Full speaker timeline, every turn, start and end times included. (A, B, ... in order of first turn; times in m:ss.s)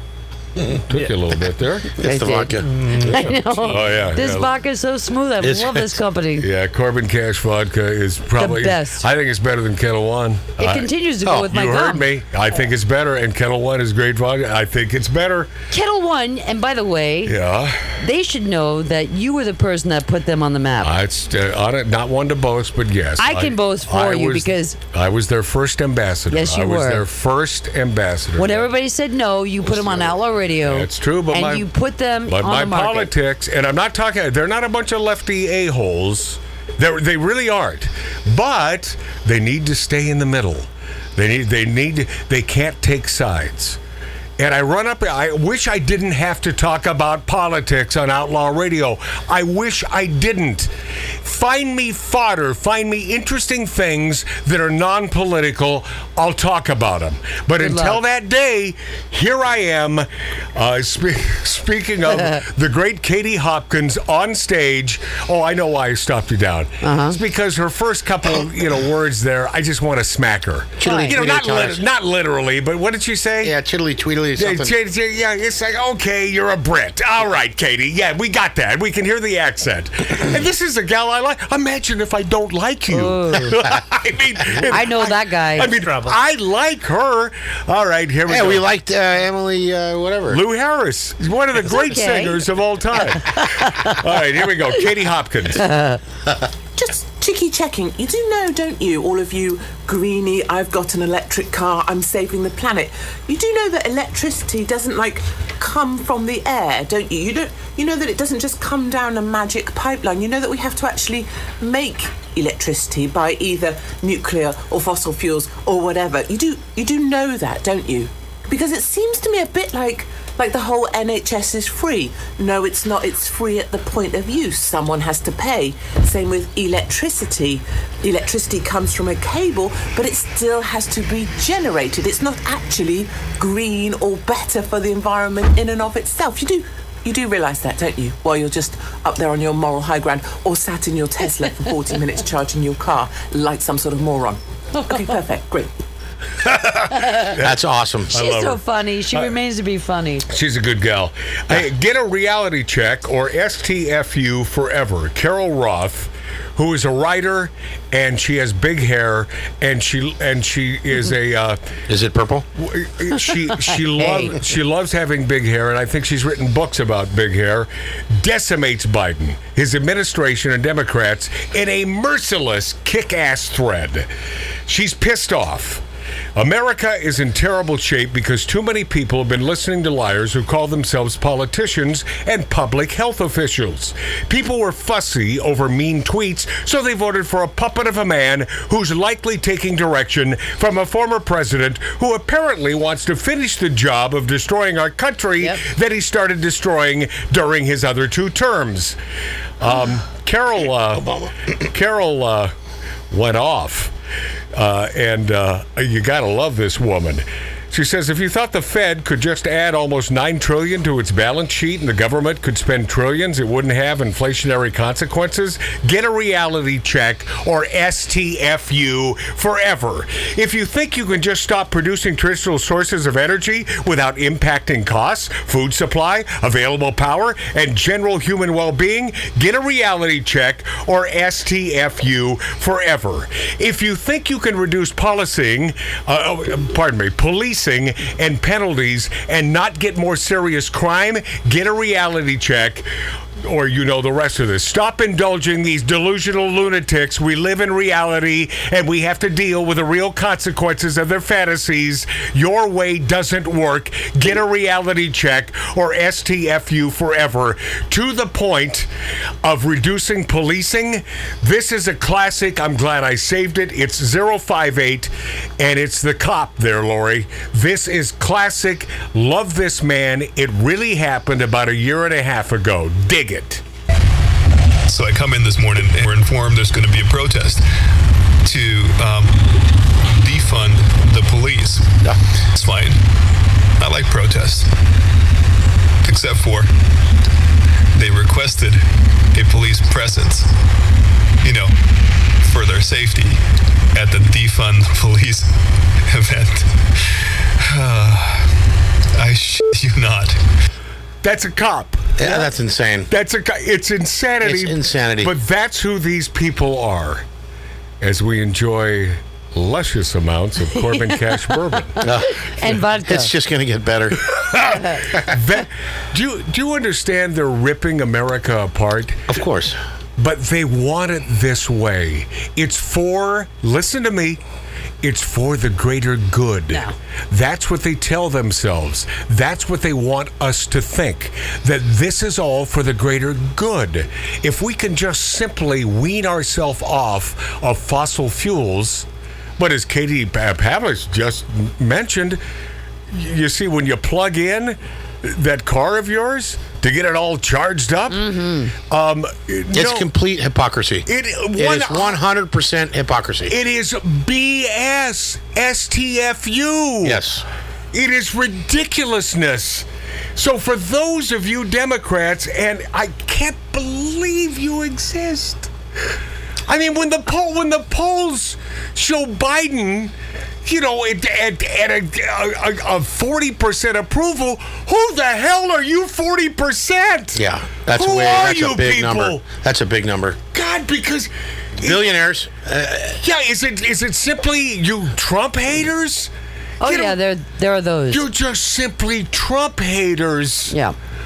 0:00.9-0:01.9 A
0:02.0-0:03.4 B
0:02.0-0:06.5 C
0:03.6-0:04.5 A
0:05.4-0:05.9 B
0:06.4-0:15.5 A
0:08.4-0:09.0 C
0:10.6-0:12.0 C
0:15.7-0:17.4 C
0:17.2-0:18.0 A
0:18.0-0:20.9 C
0:20.8-0:28.7 A
0:23.2-0:24.8 C
0:26.3-0:27.0 C
0:28.4-0:33.1 C
0:29.7-0:31.7 A
0:32.2-0:43.8 A
0:44.4-0:50.7 A
0:51.2-1:13.5 A
0:57.6-0:58.0 C
1:06.8-1:07.2 C
1:10.8-1:11.8 B
1:10.8-1:11.1 C
1:13.4-1:14.7 B
1:14.4-1:28.6 A
1:22.9-1:23.6 C
1:24.7-1:25.8 C
1:28.3-1:30.4 B
1:30.3-1:35.6 A
1:31.6-1:32.4 C
1:33.2-1:34.0 C
1:35.6-1:36.0 C
1:36.8-2:25.7 D
2:26.4-2:27.6 A
2:26.9-2:27.3 C
2:27.4-2:28.1 B
2:28.1-2:28.6 A
2:28.1-2:30.2 C
2:30.3-2:41.6 A
2:41.9-2:42.4 B
2:42.6-2:54.1 A
2:43.7-2:44.4 C
2:54.6-2:55.8 A
2:56.4-3:19.0 A
3:19.6-3:22.5 A
3:23.1-3:23.9 A
3:24.5-4:02.9 A
4:03.4-4:18.9 A
4:19.4-4:33.6 A
4:34.8-4:37.7 E
4:38.4-4:42.0 E
4:42.5-4:43.0 E
4:43.8-4:44.7 E
4:46.0-4:46.7 E
4:47.9-4:50.5 E
4:51.4-4:51.8 E
4:52.3-4:53.4 E
4:53.9-4:58.5 E
4:59.1-5:00.4 E
5:01.2-5:02.5 A
5:02.2-5:03.1 B
5:03.1-5:07.2 A
5:04.4-5:05.3 B
5:08.0-5:12.1 A
5:10.8-5:13.3 C
5:12.0-5:14.3 B
5:14.4-5:19.3 A
5:19.3-5:19.8 B
5:20.2-5:24.4 A
5:25.0-5:39.1 A
5:39.6-5:42.4 A
5:43.1-5:50.1 A
5:48.1-5:48.7 C
5:49.7-5:53.5 B
5:51.0-5:52.2 A
5:53.5-5:57.2 A
5:57.0-5:57.4 B
5:57.9-6:05.7 A
6:06.7-6:19.4 A
6:17.4-6:20.4 B
6:20.5-6:22.1 A
6:21.8-6:23.2 B
6:23.1-6:26.3 A
6:26.8-6:28.2 C
6:26.8-6:27.2 A
6:28.1-6:30.8 A
6:30.7-6:30.9 C